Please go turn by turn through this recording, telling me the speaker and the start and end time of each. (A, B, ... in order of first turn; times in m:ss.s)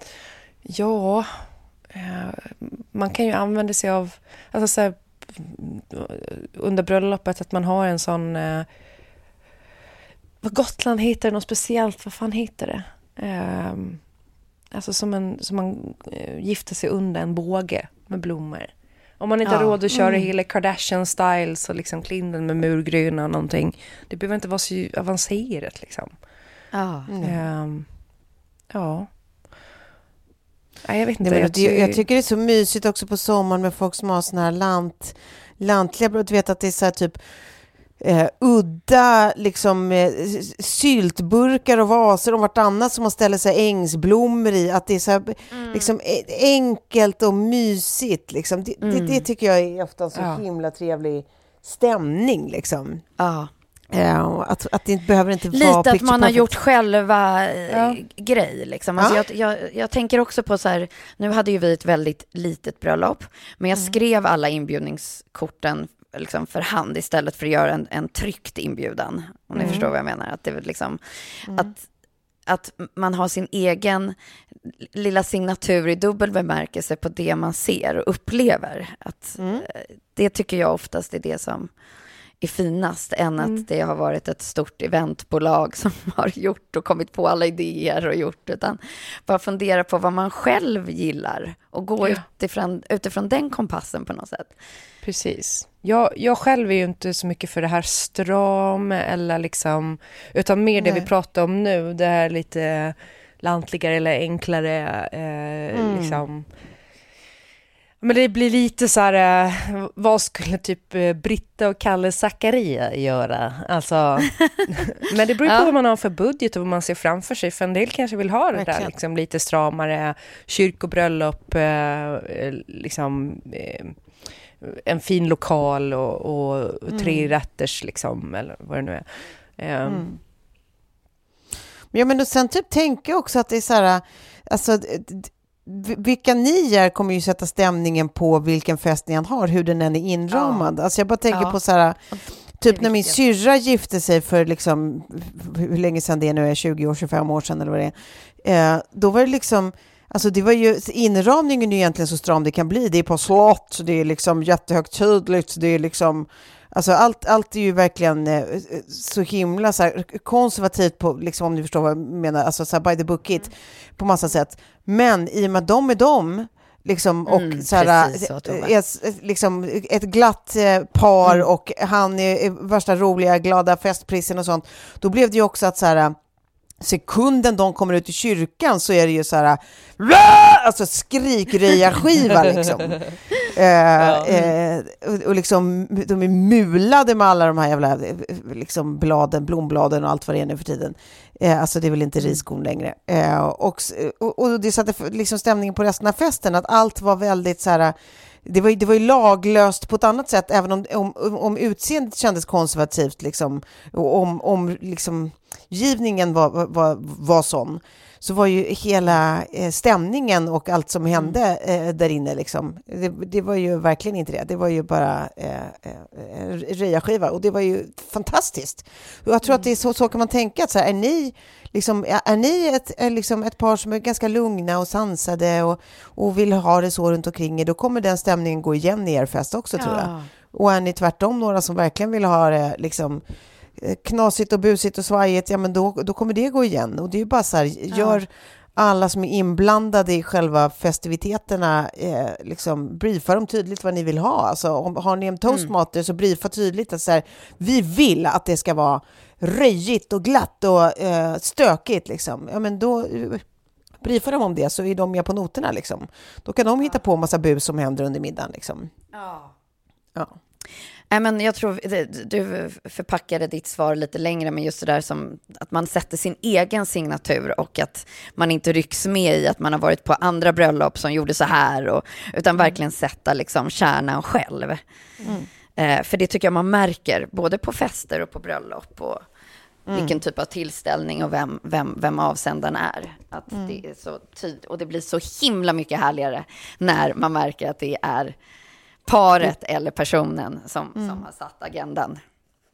0:00.6-0:08.7 A
0:10.4-0:14.0 A
0:14.7-0:26.1 A
0:19.4-0:19.7 B
0:19.9-0:20.3 C
0:26.7-0:27.1 B
0:27.1-0:27.4 C
0:27.2-0:27.9 A
0:28.7-0:29.1 A
0:30.8-0:32.0 A
0:31.2-0:37.2 C
0:38.0-0:53.0 C
0:45.5-0:45.9 B
0:48.8-0:49.2 B
0:50.2-0:50.4 A
0:53.2-0:53.5 B
0:53.9-0:56.6 C
0:55.5-1:11.8 B
0:57.7-0:58.0 A
0:59.0-0:59.2 C
1:09.6-1:09.9 A
1:11.5-1:11.7 C
1:12.5-1:14.2 B
1:14.7-1:21.7 B
1:19.4-1:19.6 C
1:22.4-1:34.5 B
1:23.4-1:23.7 A
1:35.0-1:46.5 A
1:40.8-1:41.1 C
1:45.7-1:46.2 C
1:48.0-2:04.0 A
1:58.5-1:58.9 C
2:04.6-2:09.1 A
2:06.9-2:07.3 C
2:09.6-2:10.1 A
2:09.8-2:10.2 C
2:11.9-2:22.0 C
2:20.3-2:20.7 B
2:21.3-2:21.6 B
2:22.1-2:23.2 B
2:22.6-2:56.2 C
2:47.3-2:48.7 B
2:56.8-3:53.2 C
3:04.0-3:04.4 A
3:49.8-3:50.3 B
3:53.8-4:13.4 C
3:57.9-3:58.2 B
4:14.0-4:18.9 C
4:19.1-4:19.5 B
4:21.1-4:34.8 B
4:35.2-4:35.5 C
4:35.8-4:39.2 B
4:39.9-4:40.2 C
4:39.9-4:48.4 B
4:43.5-4:43.8 C
4:49.1-4:52.2 B
4:51.0-4:51.2 C